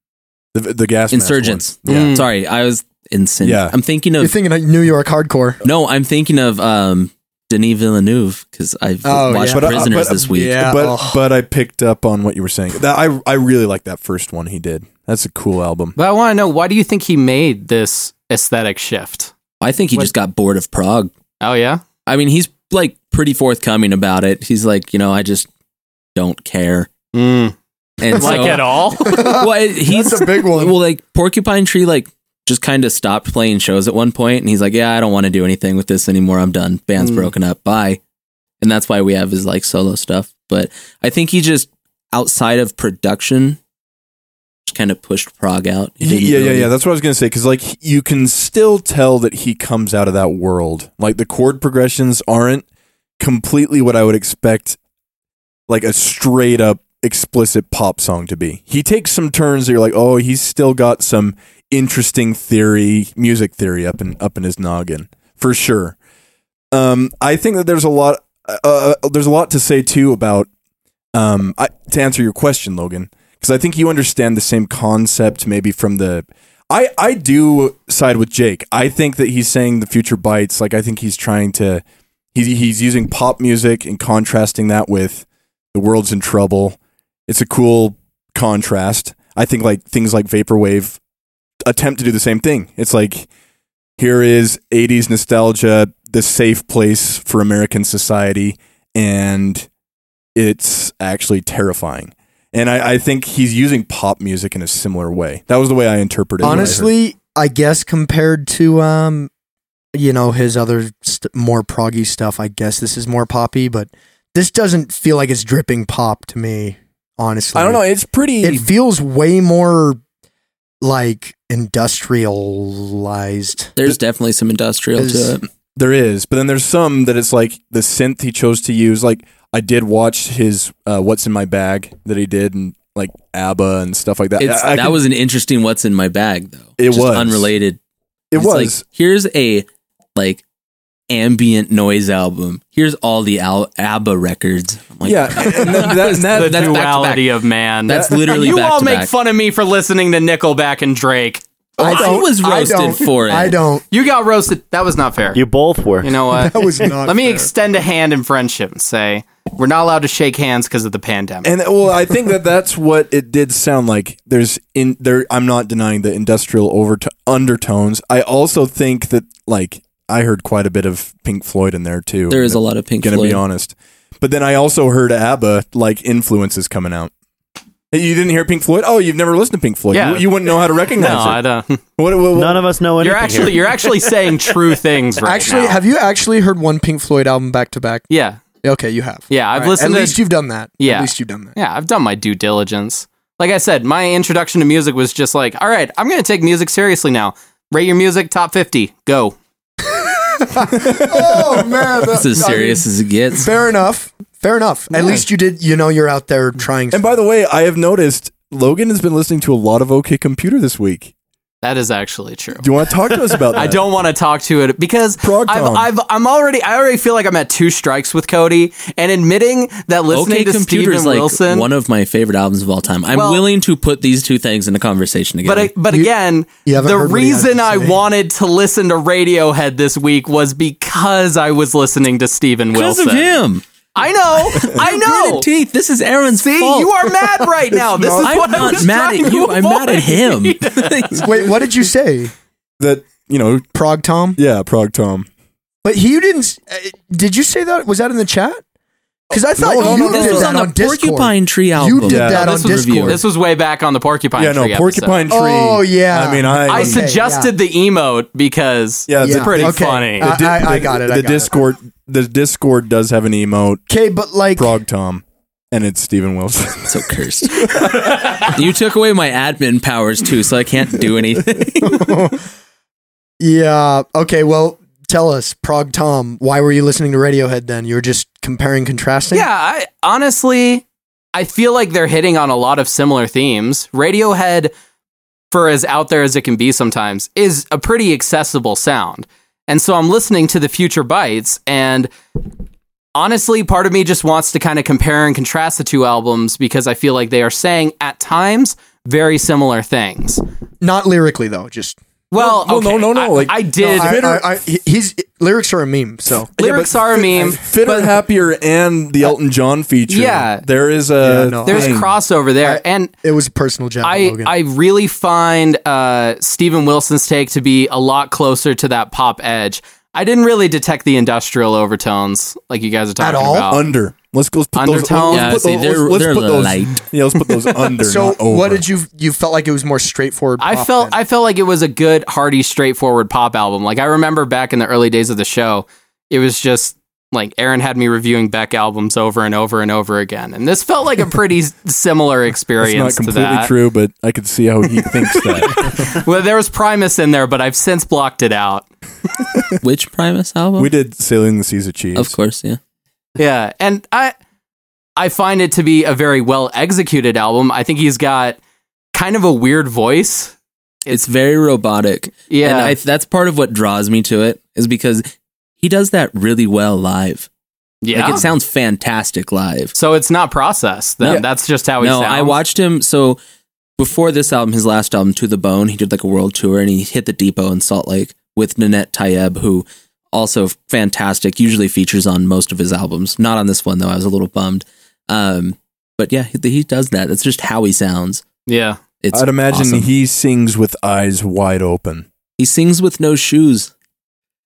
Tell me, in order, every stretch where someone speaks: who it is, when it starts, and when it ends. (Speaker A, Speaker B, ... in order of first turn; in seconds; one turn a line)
Speaker A: 0.5-2.1
Speaker B: 1.1-4.3
Speaker C: 1.9-2.2
Speaker A: 3.4-3.8
Speaker D: 4.2-5.6
Speaker B: 5.6-10.7
Speaker D: 9.0-11.2
Speaker A: 9.5-15.9
Speaker C: 16.0-19.3
Speaker B: 19.6-21.1
Speaker C: 21.4-21.8
Speaker B: 22.1-25.5
Speaker B: 26.1-26.9
Speaker C: 27.1-29.4
Speaker B: 28.0-38.0
Speaker D: 28.1-30.8
Speaker C: 37.0-37.3
Speaker B: 38.6-43.6
Speaker B: 44.6-46.7
Speaker A: 46.0-52.6
Speaker A: 53.2-54.8
Speaker A: 55.7-66.0
Speaker A: 66.7-70.5
Speaker A: 71.1-81.8
Speaker A: 82.3-91.0
Speaker A: 91.7-93.3
Speaker A: 94.0-99.7
Speaker A: 100.3-106.9
Speaker D: 106.4-109.3
Speaker D: 109.9-117.8
Speaker A: 117.5-118.7
Speaker D: 118.4-120.0
Speaker D: 120.8-123.7
Speaker B: 123.8-125.5
Speaker D: 125.0-125.4
Speaker A: 125.7-135.0
Speaker B: 134.4-137.8
Speaker A: 136.8-137.5
Speaker A: 138.3-138.8
Speaker B: 138.3-140.4
Speaker B: 141.1-147.3
Speaker A: 145.0-146.8
Speaker C: 145.8-152.2
Speaker B: 147.9-149.1
Speaker D: 151.8-153.8
Speaker B: 151.8-153.6
Speaker C: 153.9-155.4
Speaker E: 155.3-156.5
Speaker C: 156.0-161.5
Speaker D: 156.3-157.5
Speaker A: 161.4-177.1
Speaker B: 172.3-173.4
Speaker A: 177.9-181.4
Speaker C: 179.9-181.8
Speaker A: 182.0-182.6
Speaker E: 182.3-184.2
Speaker C: 183.0-185.8
Speaker D: 185.2-188.0
Speaker C: 188.1-188.4
Speaker D: 188.6-191.6
Speaker C: 189.3-190.2
Speaker C: 190.8-199.3
Speaker D: 200.0-207.2
Speaker A: 200.7-201.9
Speaker B: 202.0-203.5
Speaker A: 206.9-211.1
Speaker C: 211.6-221.7
Speaker A: 212.6-213.8
Speaker A: 215.2-215.9
Speaker B: 220.1-225.7
Speaker C: 223.1-223.4
Speaker C: 225.4-233.3
Speaker D: 226.6-228.0
Speaker B: 232.7-233.6
Speaker C: 233.9-235.5
Speaker B: 234.5-236.9
Speaker C: 236.4-241.2
Speaker A: 237.9-238.9
Speaker B: 238.2-241.3
Speaker D: 241.2-242.3
Speaker A: 242.8-243.6
Speaker D: 243.7-244.4
Speaker A: 244.4-245.3
Speaker D: 245.8-248.6
Speaker D: 249.3-253.2
Speaker A: 249.3-250.5
Speaker B: 249.8-253.2
Speaker A: 252.0-252.9
Speaker C: 253.0-255.2
Speaker A: 254.4-257.1
Speaker D: 255.3-257.5
Speaker C: 256.7-260.3
Speaker A: 259.1-263.8
Speaker D: 259.2-261.5
Speaker D: 263.9-264.7
Speaker A: 264.6-267.0
Speaker B: 266.9-272.1
Speaker A: 267.7-268.5
Speaker D: 271.8-272.3
Speaker D: 273.4-279.5
Speaker C: 279.3-280.8
Speaker C: 281.3-284.7
Speaker C: 285.5-292.1
Speaker C: 293.1-300.4
Speaker D: 300.8-302.0
Speaker C: 302.3-304.2
Speaker A: 302.4-304.4
Speaker D: 303.9-307.6
Speaker C: 306.6-308.1
Speaker A: 306.6-312.1
Speaker C: 310.1-310.6
Speaker D: 311.2-312.0
Speaker C: 311.6-313.1
Speaker D: 312.6-314.5
Speaker C: 314.0-323.8
Speaker D: 323.2-323.8
Speaker A: 323.7-328.8
Speaker C: 324.7-325.6
Speaker B: 325.3-327.0
Speaker D: 328.0-331.1
Speaker C: 330.6-343.7
Speaker A: 342.8-346.1
Speaker C: 345.0-348.9
Speaker B: 349.8-350.9
Speaker A: 350.8-352.4
Speaker B: 352.1-352.8
Speaker C: 353.4-354.3
Speaker C: 355.2-358.6
Speaker C: 359.1-360.5
Speaker B: 361.1-367.5
Speaker C: 362.5-363.0
Speaker C: 368.0-368.5
Speaker B: 368.1-369.9
Speaker C: 369.9-372.6
Speaker B: 371.2-371.5
Speaker B: 372.0-373.4
Speaker B: 374.0-388.4
Speaker C: 388.7-389.0
Speaker B: 389.2-390.1
Speaker A: 389.3-392.3
Speaker B: 392.6-393.9